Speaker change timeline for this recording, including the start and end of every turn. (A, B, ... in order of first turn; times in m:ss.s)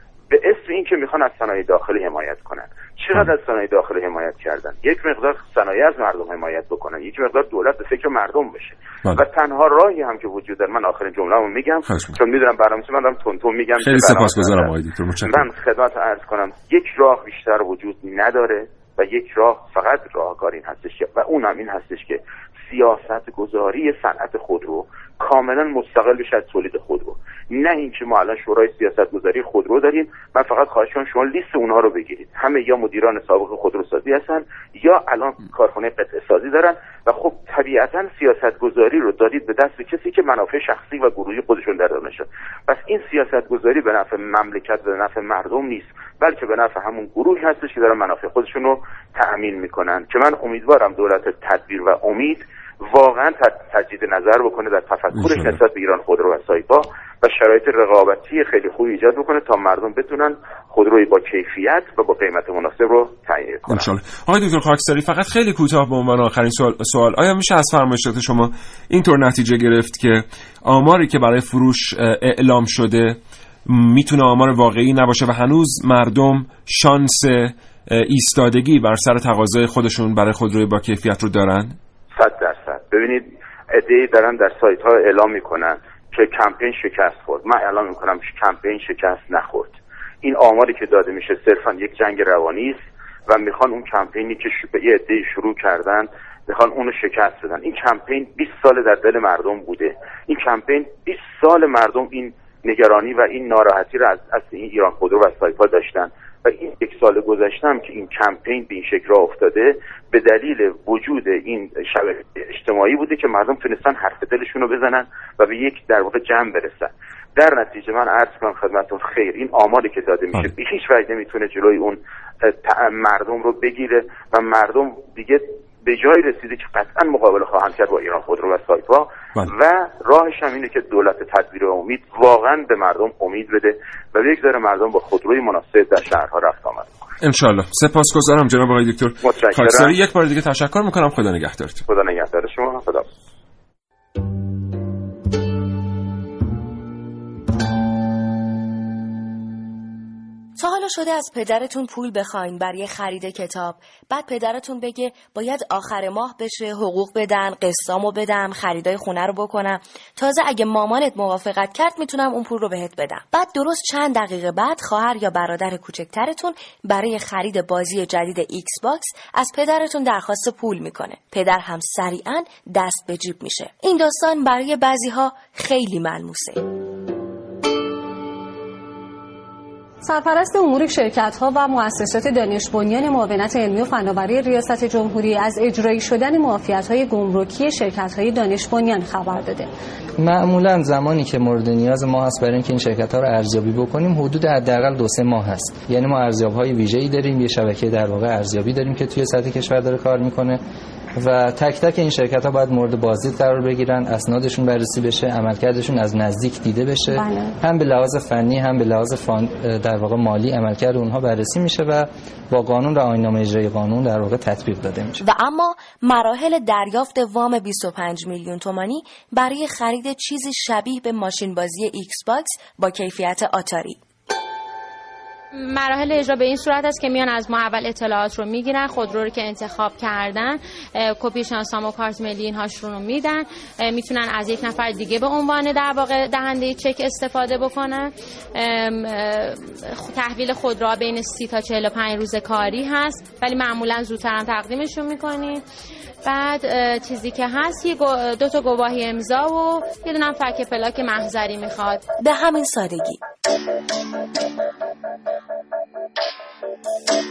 0:00.3-0:14.7 A
0:11.8-0:12.2 B
0:13.8-0:15.5 B
0:15.2-1:03.9 A
0:55.1-0:55.6 B
1:03.7-1:21.8 B
1:22.1-2:17.1 A
2:17.2-2:21.8 B
2:19.2-2:20.0 A
2:21.9-2:23.1 A
2:30.6-2:56.6 C
3:00.0-3:09.7 D
3:10.2-3:20.6 E
3:21.2-3:35.2 E
3:35.2-3:44.0 C
3:45.5-4:05.6 F
4:06.2-4:12.0 F
4:12.2-4:13.2 C